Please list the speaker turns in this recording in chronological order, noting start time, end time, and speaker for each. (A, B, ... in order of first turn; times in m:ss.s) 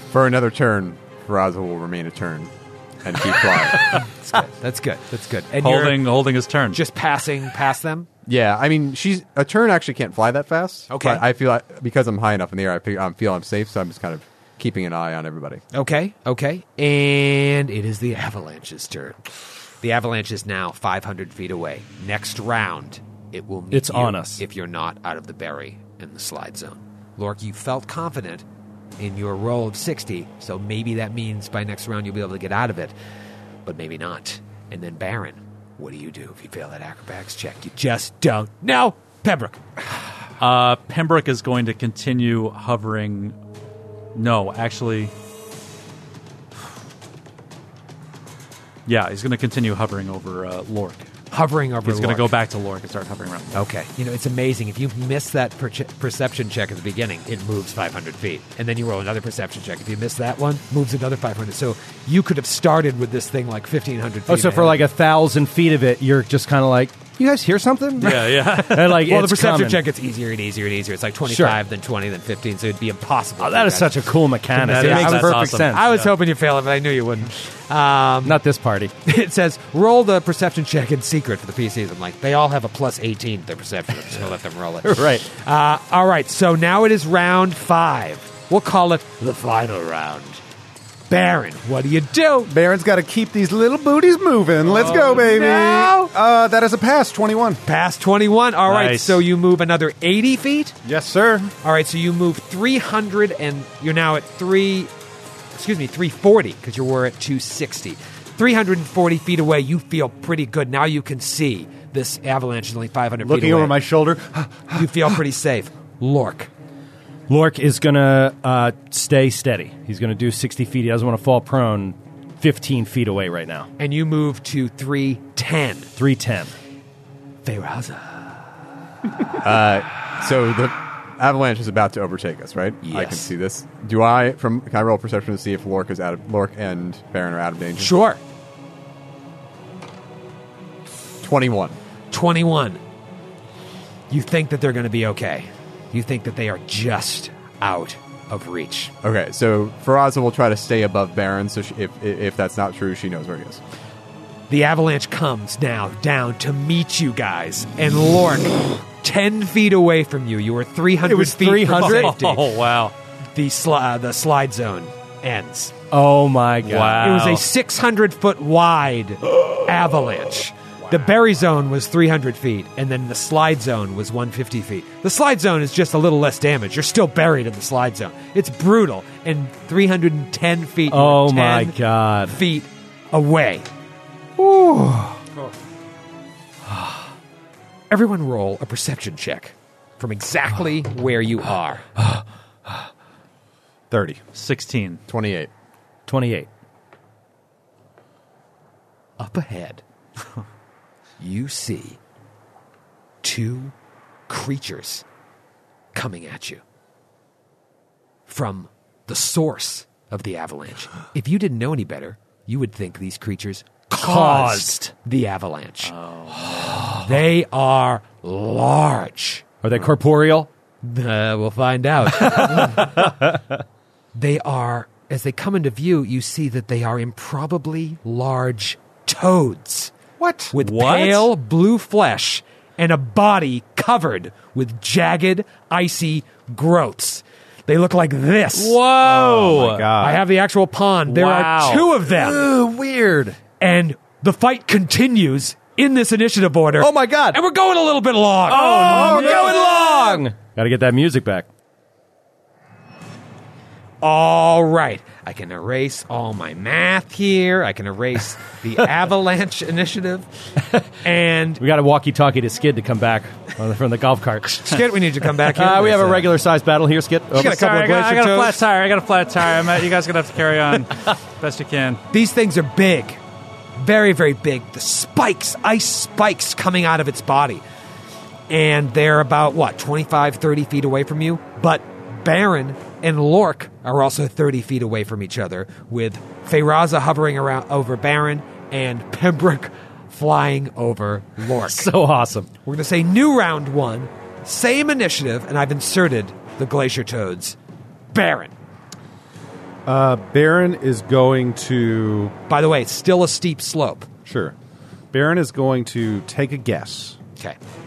0:00.1-0:04.0 A
0:03.9-0:06.1 B
0:05.6-0:06.8 C
0:06.7-0:08.1 B
0:08.2-0:15.6 A
0:10.9-0:11.2 B
0:15.7-0:19.2 B
0:19.8-0:28.4 B
0:23.7-0:24.4 D
0:29.0-0:32.9 B
0:33.6-0:39.9 B
0:40.4-0:43.4 C
0:44.1-0:45.1 C
0:48.8-0:51.1 C
0:51.3-0:52.3 B
0:51.8-0:53.7 C
0:53.5-1:04.8 B
1:04.3-1:09.8 D
1:08.0-1:09.0 C
1:08.0-1:18.4 B
1:11.2-1:11.6 D
1:13.4-1:15.9 D
1:14.6-1:16.1 C
1:18.2-1:18.9 D
1:19.0-1:30.4 B
1:24.8-1:25.2 D
1:31.1-1:32.5 B
1:32.5-1:37.6 E
1:34.6-1:36.1 B
1:37.6-1:40.7 B
1:38.7-1:39.2 C
1:40.8-1:41.5 E
1:41.6-1:44.9 B
1:45.5-1:53.8 B
1:53.2-1:55.2 E
1:54.7-1:56.5 B
1:57.3-2:03.7 D
2:03.8-2:05.9 B
2:06.0-2:06.5 D
2:07.4-2:08.4 B
2:09.4-2:17.9 A
2:12.8-2:13.3 B
2:17.8-2:18.2 B
2:21.2-2:21.8 A
2:22.1-2:22.8 B
2:24.1-2:28.9 B
2:29.0-2:33.6 A
2:34.5-2:42.5 B
2:41.0-2:42.2 D
2:41.7-2:42.9 C
2:43.3-2:45.7 B
2:45.9-2:47.2 D
2:46.6-2:47.4 C
2:47.0-3:01.7 B
3:00.9-3:02.4 D
3:02.3-3:03.7 B
3:04.4-3:05.2 D
3:06.7-3:07.0 D
3:07.9-3:11.8 B
3:13.9-3:14.2 E
3:14.3-3:15.0 C
3:15.1-3:15.5 A
3:16.1-3:16.5 D
3:19.2-3:19.8 B
3:21.2-3:22.0 B
3:23.2-3:23.7 B
3:24.3-3:25.0 B
3:25.9-3:26.6 B
3:28.3-3:35.9 B
3:33.9-3:34.9 D
3:35.8-3:37.0 C
3:36.6-3:37.0 D
3:36.8-3:39.4 B
3:39.6-3:40.5 D
3:40.8-3:43.1 B
3:42.3-3:43.3 D
3:44.1-3:49.9 B
3:50.2-3:50.5 E
3:50.5-3:58.8 B
3:50.6-3:51.3 C
3:58.6-3:59.9 C
3:59.0-4:00.2 E
4:00.0-4:02.5 B
4:01.1-4:01.9 C
4:02.0-4:03.4 D
4:03.6-4:10.2 B
4:06.8-4:07.4 D
4:08.4-4:11.5 D
4:08.9-4:09.5 E
4:14.0-4:20.3 B
4:21.0-4:21.6 B
4:21.6-4:24.8 D
4:24.5-4:26.4 B
4:25.4-4:27.6 D
4:27.3-4:28.6 B
4:27.4-4:32.0 C
4:32.1-4:33.2 B
4:33.8-4:37.6 B
4:38.5-4:51.9 B
4:51.6-4:52.5 D
4:52.6-4:57.6 B
4:58.1-4:58.5 B
4:59.8-5:02.3 E
5:02.5-5:04.1 B
5:04.2-5:04.5 E
5:05.1-5:07.2 E